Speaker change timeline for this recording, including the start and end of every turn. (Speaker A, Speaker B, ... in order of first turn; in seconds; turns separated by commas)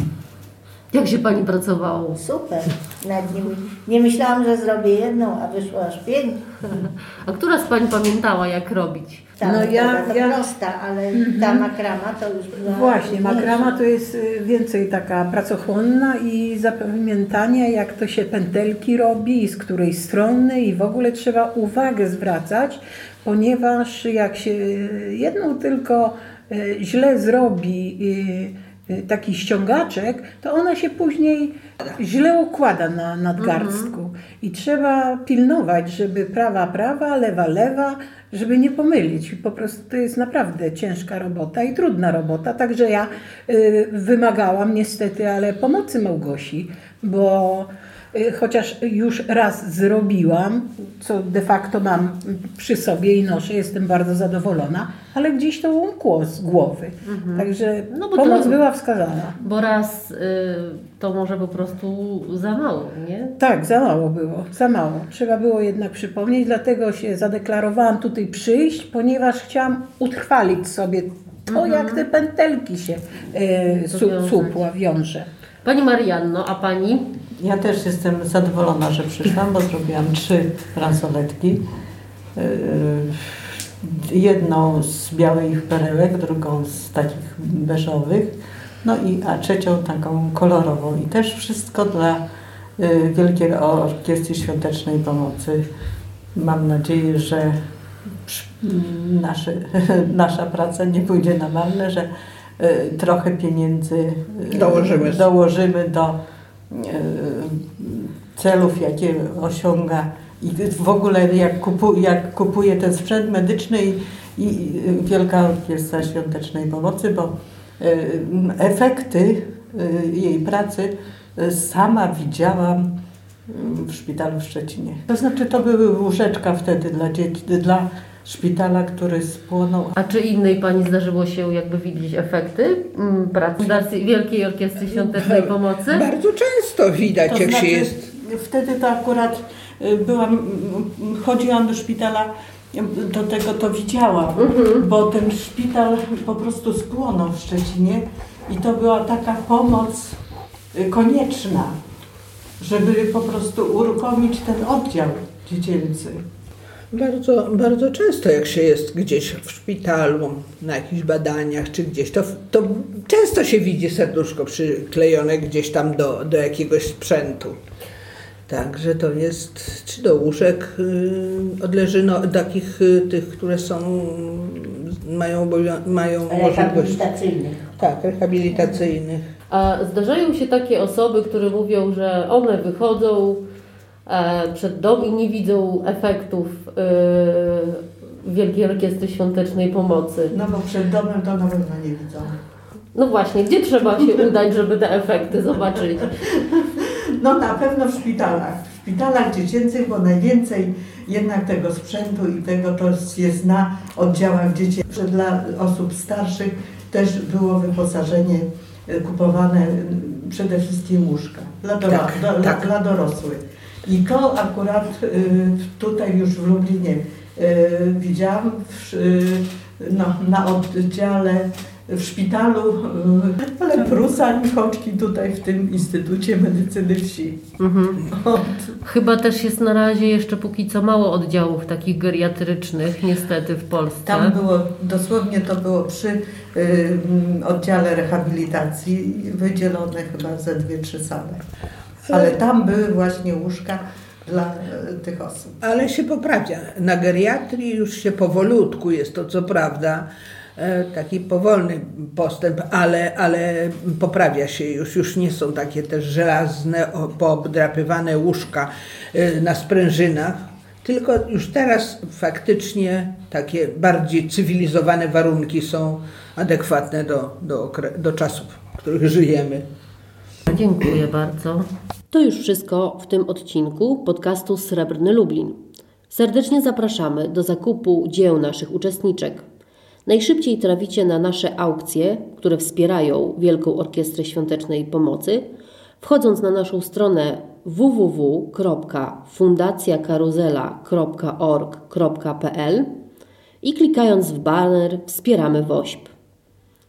Speaker A: 0.9-2.2, Speaker B: 2.2-6.4, Speaker A: 6.7-9.3, Speaker B: 9.4-13.8, Speaker C: 9.4-10.5, Speaker C: 11.1-11.7, Speaker C: 12.7-59.4, Speaker A: 33.4-33.9, Speaker A: 57.1-58.6, Speaker A: 59.4-63.4, Speaker C: 63.4-75.3, Speaker A: 71.5-72.0, Speaker A: 73.7-74.6, Speaker A: 75.6-77.1, Speaker D: 77.4-81.6, Speaker D: 82.4-92.2, Speaker D: 92.8-95.6, Speaker D: 96.3-97.5, Speaker D: 98.3-102.1, Speaker D: 102.6-106.2, Speaker E: 104.5-105.2, Speaker D: 106.7-122.9, Speaker D: 123.5-129.9, Speaker A: 130.0-136.1, Speaker E: 134.9-137.9, Speaker D: 137.3-150.2, Speaker A: 144.4-144.8, Speaker D: 150.8-151.8, Speaker D: 152.6-156.2, Speaker E: 156.9-167.6, Speaker E: 168.5-177.1, Speaker B: 176.3-177.6, Speaker E: 177.8-179.2, Speaker A: 179.5-183.4, Speaker A: 184.1-190.3, Speaker D: 190.3-192.4, Speaker A: 192.9-196.2, Speaker D: 196.3-227.4, Speaker E: 211.9-212.7, Speaker A: 227.6-228.0, Speaker D: 228.1-228.8, Speaker A: 228.8-234.4, Speaker D: 234.1-241.4, Speaker D: 242.1-245.5, Speaker E: 245.6-250.1, Speaker E: 250.6-269.6, Speaker A: 270.5-275.6, Speaker A: 276.1-279.4, Speaker A: 280.1-285.5, Speaker A: 286.0-292.9, Speaker A: 293.6-296.1